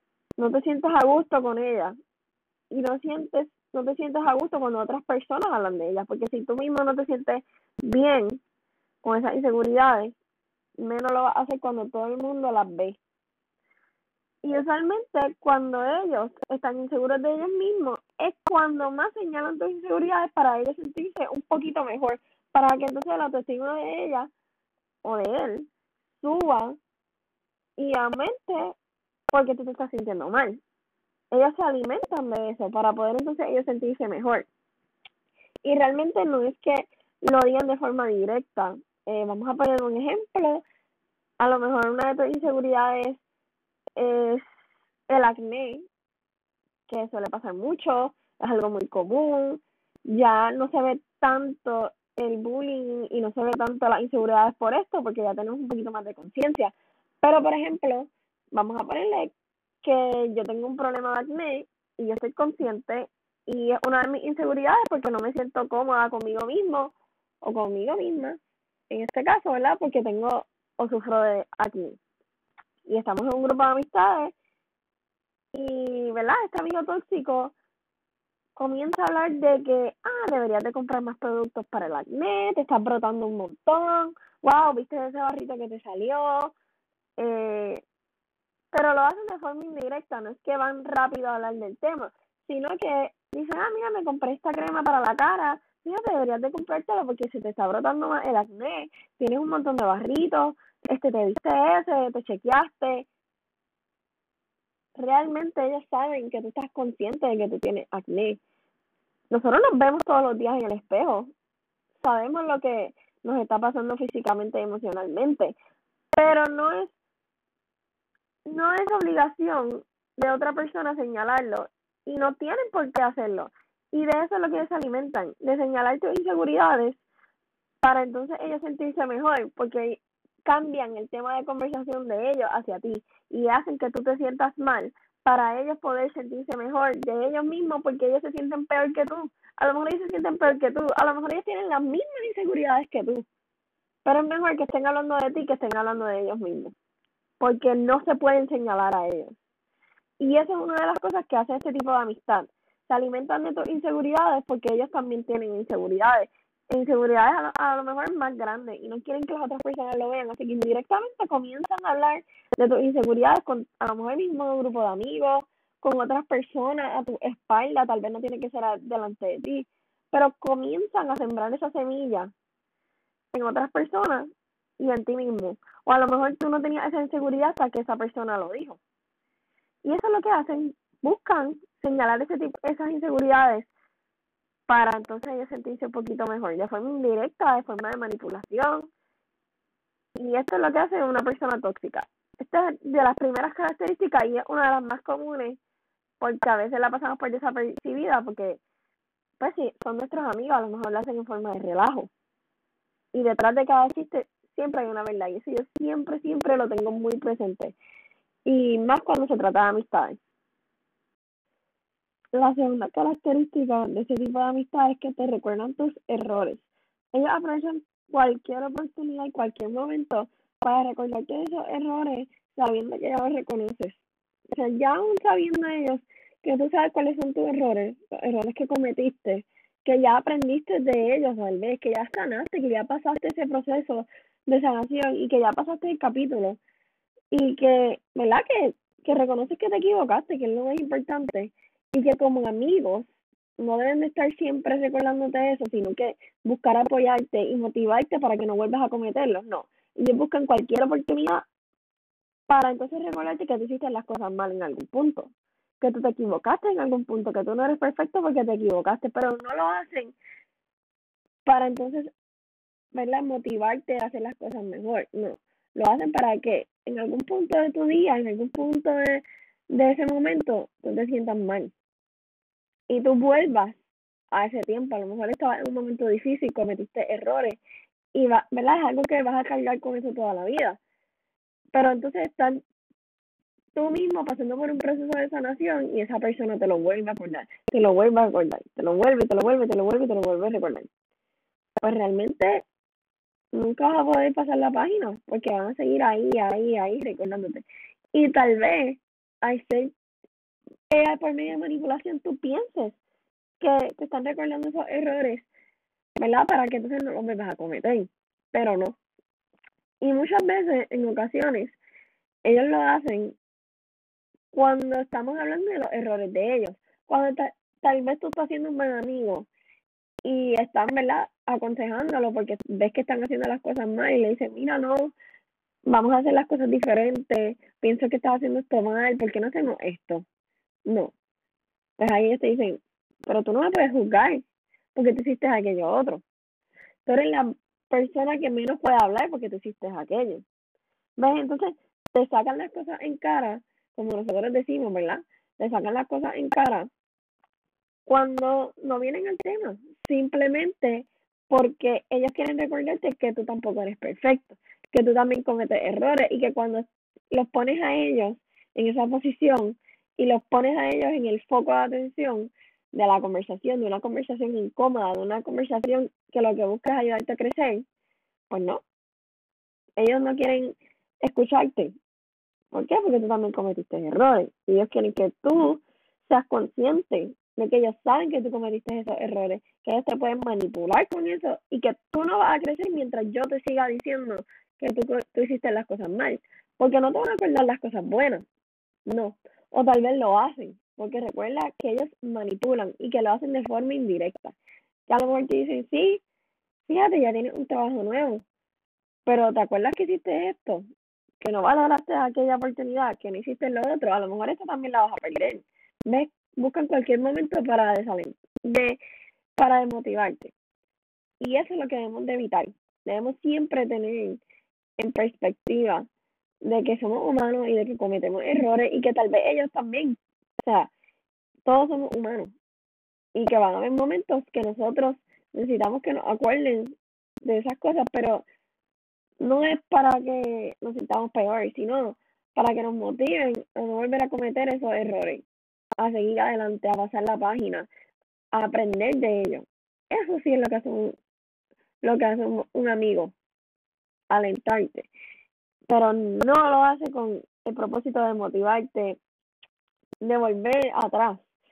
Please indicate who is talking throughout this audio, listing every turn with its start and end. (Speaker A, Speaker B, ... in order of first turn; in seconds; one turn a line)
Speaker A: 0.4-2.0
Speaker A: 2.7-8.4
Speaker A: 9.0-10.2
Speaker A: 10.8-13.0
Speaker A: 14.4-24.3
Speaker A: 25.0-25.7
Speaker A: 26.2-26.8
Speaker A: 27.8-28.7
Speaker A: 29.3-30.6
Speaker A: 31.3-34.5
Speaker A: 35.6-40.6
Speaker A: 41.4-43.2
Speaker A: 44.0-44.5
Speaker A: 45.1-45.8
Speaker A: 46.9-49.6
Speaker A: 50.1-66.9
Speaker A: 67.5-68.4
Speaker A: 68.9-72.0
Speaker A: 72.9-74.3
Speaker A: 75.5-77.5
Speaker A: 78.6-86.5
Speaker A: 87.2-87.8
Speaker A: 88.7-103.1
Speaker A: 105.0-108.4
Speaker A: 109.3-111.3
Speaker A: 112.0-115.6
Speaker A: 116.1-116.9
Speaker A: 118.5-127.0
Speaker A: 127.8-143.3
Speaker A: 144.1-146.7
Speaker A: 147.4-149.3
Speaker A: 150.2-172.3
Speaker A: 173.3-174.3
Speaker A: 174.8-178.8
Speaker A: 179.9-183.7
Speaker A: 184.7-188.9
Speaker A: 190.2-195.6
Speaker A: 196.2-198.6
Speaker A: 199.4-202.1
Speaker A: 203.1-207.8
Speaker A: 208.5-210.2
Speaker A: 212.4-224.0
Speaker A: 224.5-236.6
Speaker A: 237.3-243.1
Speaker A: 243.6-251.4
Speaker A: 252.5-255.3
Speaker A: 255.8-260.1
Speaker A: 261.5-262.1
Speaker A: 262.9-271.7
Speaker A: 272.9-273.8
Speaker A: 274.3-277.6
Speaker A: 278.1-280.8
Speaker A: 281.7-282.6
Speaker A: 283.8-290.9
Speaker A: 291.8-292.6
Speaker A: 293.5-297.6
Speaker A: 298.1-299.9
Speaker A: 300.9-303.0
Speaker A: 303.6-305.5
Speaker A: 306.2-309.0
Speaker A: 310.0-311.8
Speaker A: 312.5-313.4
Speaker A: 314.5-319.5
Speaker A: 320.2-325.1
Speaker A: 325.9-330.2
Speaker A: 330.9-331.1
Speaker A: 332.0-334.4
Speaker A: 334.9-336.2
Speaker A: 337.1-340.4
Speaker A: 341.2-346.9
Speaker A: 348.1-367.8
Speaker A: 368.5-368.8
Speaker A: 370.0-372.0
Speaker A: 372.7-388.4
Speaker A: 389.1-394.6
Speaker A: 395.1-396.2
Speaker A: 396.9-398.4
Speaker A: 399.3-400.9
Speaker A: 401.4-409.0
Speaker A: 409.6-410.5
Speaker A: 411.4-414.4
Speaker A: 415.0-416.1
Speaker A: 416.6-420.9
Speaker A: 421.7-422.5
Speaker A: 423.4-428.4
Speaker A: 429.4-435.4
Speaker A: 436.0-437.9
Speaker A: 438.5-441.2
Speaker A: 442.0-443.3
Speaker A: 444.3-445.1
Speaker A: 445.9-449.2
Speaker A: 450.2-451.4